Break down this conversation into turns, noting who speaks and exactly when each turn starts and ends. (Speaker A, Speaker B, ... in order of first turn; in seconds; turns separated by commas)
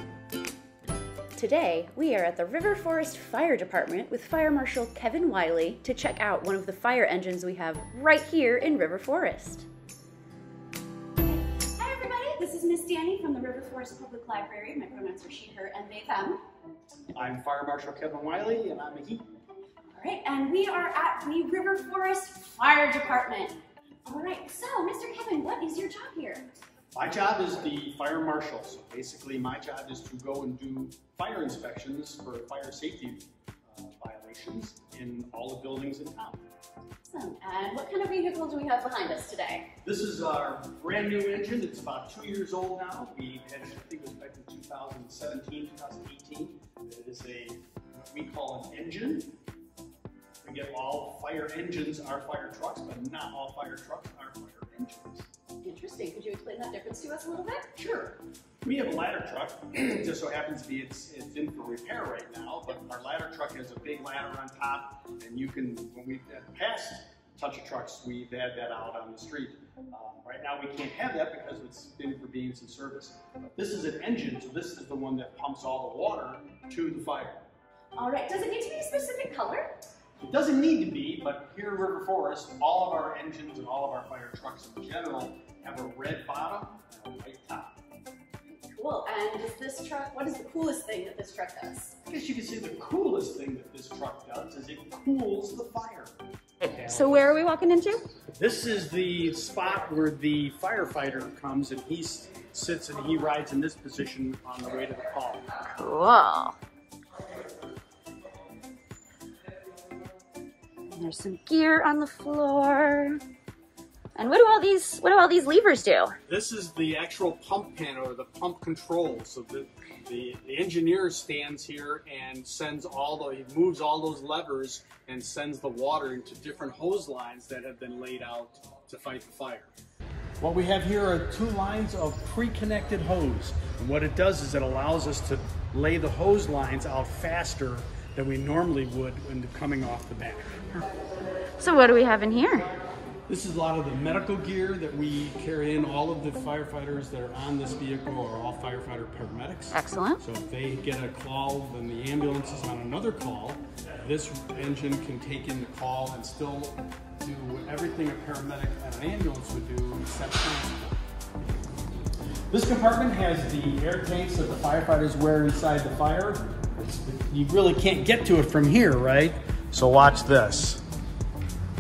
Speaker A: 1.4-9.7, Speaker A: 11.2-16.4, Speaker B: 17.1-19.3, Speaker A: 19.9-26.5, Speaker B: 26.9-36.5, Speaker A: 37.0-39.7, Speaker B: 39.8-49.3, Speaker B: 50.4-55.3, Speaker A: 55.6-57.7, Speaker B: 57.8-77.5, Speaker A: 78.0-79.8, Speaker B: 80.2-87.8, Speaker A: 88.5-92.0, Speaker B: 92.0-97.4, Speaker A: 96.6-98.0, Speaker B: 98.2-105.5, Speaker A: 105.7-106.6, Speaker A: 110.9-113.2, Speaker A: 114.2-116.2, Speaker B: 116.3-129.7, Speaker B: 130.4-140.6, Speaker A: 141.6-142.8, Speaker B: 143.3-161.0, Speaker A: 149.7-150.2, Speaker B: 162.5-170.8